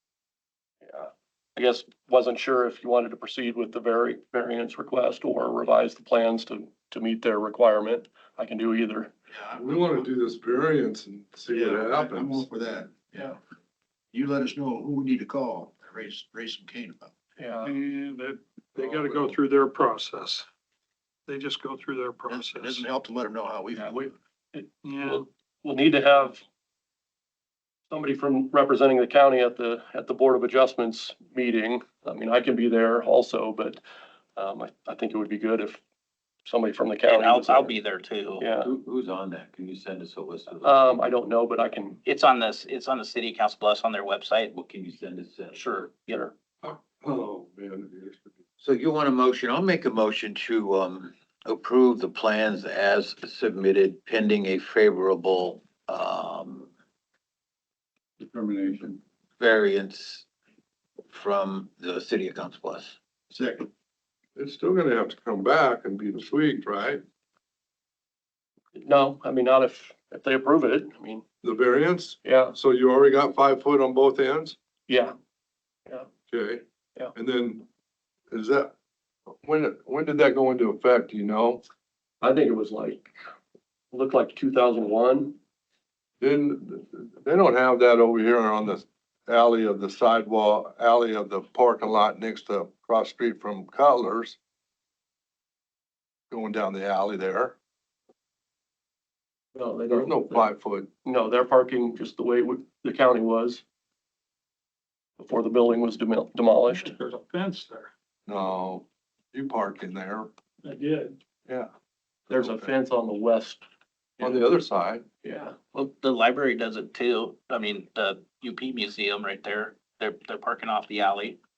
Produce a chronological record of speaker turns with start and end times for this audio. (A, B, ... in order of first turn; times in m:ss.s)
0:00.8-0:09.1 A
0:09.3-0:10.1 B
0:09.6-0:12.5 C
0:11.5-0:13.4 B
0:14.1-0:17.1 B
0:17.4-0:17.7 A
0:17.6-0:20.5 D
0:18.8-0:19.4 C
0:21.3-0:22.8 D
0:22.3-0:24.2 B
0:23.7-0:26.4 A
0:24.8-0:25.2 D
0:27.9-0:33.8 A
0:34.4-0:35.8 A
0:36.4-0:37.8 A
0:37.1-0:38.5 E
0:38.4-0:38.7 A
0:38.6-0:40.9 F
0:40.6-0:42.0 A
0:42.0-0:44.5 E
0:44.5-0:45.6 F
0:45.5-0:46.3 A
0:46.6-0:48.4 C
0:48.6-0:56.7 F
0:58.2-0:59.0 B
0:59.4-1:00.3 F
1:01.1-1:03.0 F
1:03.3-1:03.7 B
1:04.4-1:07.0 C
1:08.8-1:11.2 A
1:11.4-1:14.6 C
1:12.2-1:12.6 A
1:14.9-1:15.2 A
1:16.3-1:16.6 C
1:17.2-1:17.7 C
1:18.3-1:18.7 C
1:19.4-1:21.6 C
1:22.2-1:23.2 A
1:23.9-1:25.4 A
1:26.2-1:34.4 C
1:36.3-1:37.6 C
1:39.6-1:40.5 A
1:39.9-1:40.9 C
1:41.0-1:43.6 A
1:45.2-1:46.9 A
1:46.7-1:47.9 D
1:48.3-1:50.3 C
1:50.6-1:51.2 D
1:51.5-1:51.7 C
1:52.3-1:53.6 A
1:52.3-1:52.7 C
1:54.2-1:55.0 C
1:55.2-1:55.6 A
1:55.7-2:01.4 E